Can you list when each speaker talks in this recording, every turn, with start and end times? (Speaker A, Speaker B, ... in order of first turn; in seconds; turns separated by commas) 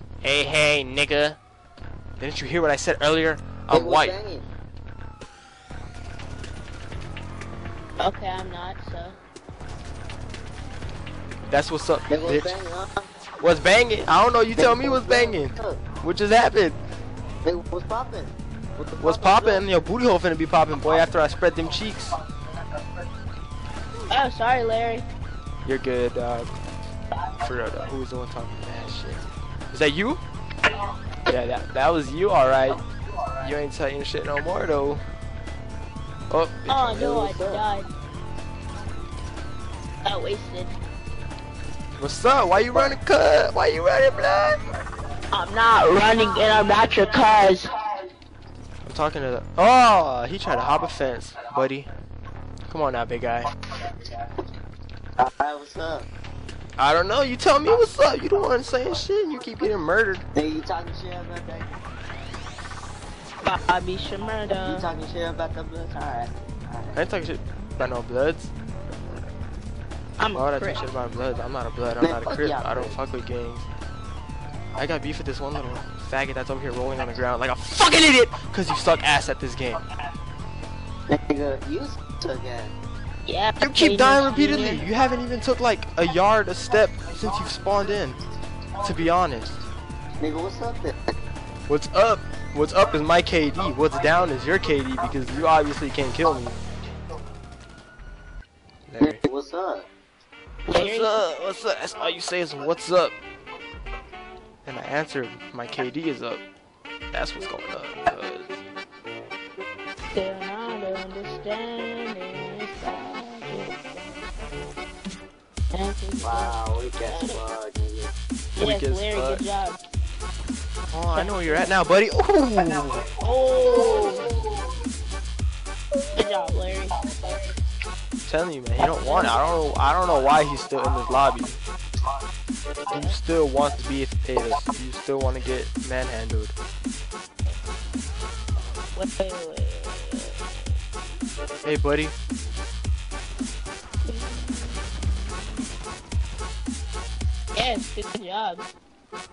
Speaker A: 0.2-1.4, Speaker A: 2.2-4.2, Speaker B: 3.7-4.4, Speaker C: 8.0-9.2, Speaker A: 11.5-12.6, Speaker B: 12.1-13.1, Speaker A: 13.4-16.8, Speaker B: 14.6-15.8, Speaker B: 17.4-19.6, Speaker A: 19.0-22.2, Speaker C: 24.1-25.1, Speaker A: 25.6-26.5, Speaker A: 27.3-30.2, Speaker A: 31.3-32.8, Speaker A: 33.4-35.0, Speaker A: 36.3-37.2, Speaker C: 36.7-37.9, Speaker B: 37.0-37.6, Speaker C: 40.0-40.8, Speaker A: 42.0-44.6, Speaker B: 42.7-43.0, Speaker C: 45.3-47.7, Speaker A: 48.8-51.9, Speaker A: 52.7-53.5, Speaker B: 55.2-56.1, Speaker A: 56.8-60.2, Speaker B: 60.3-61.7, Speaker C: 63.4-64.9, Speaker B: 64.6-67.0, Speaker A: 66.9-68.5, Speaker C: 70.2-70.8, Speaker A: 70.3-73.7, Speaker B: 72.0-73.0, Speaker A: 74.7-79.8, Speaker B: 81.1-82.7, Speaker C: 83.2-84.9, Speaker A: 83.6-88.2, Speaker A: 88.8-89.6, Speaker B: 90.2-90.9, Speaker A: 91.7-96.6, Speaker A: 98.9-99.2, Speaker B: 99.0-99.9, Speaker C: 100.7-101.2, Speaker A: 100.7-103.2, Speaker A: 104.6-106.4, Speaker A: 107.1-108.6, Speaker C: 110.1-113.8, Speaker C: 115.7-117.4, Speaker B: 116.2-118.1, Speaker C: 118.5-119.8, Speaker A: 118.6-119.4, Speaker A: 120.9-123.1, Speaker C: 121.1-121.8, Speaker C: 123.2-124.3, Speaker C: 126.1-127.2, Speaker A: 128.2-131.6, Speaker C: 128.8-129.4, Speaker A: 132.9-136.5, Speaker C: 132.9-133.2, Speaker C: 138.9-140.5, Speaker A: 141.6-142.1, Speaker C: 144.1-145.1, Speaker C: 147.5-148.6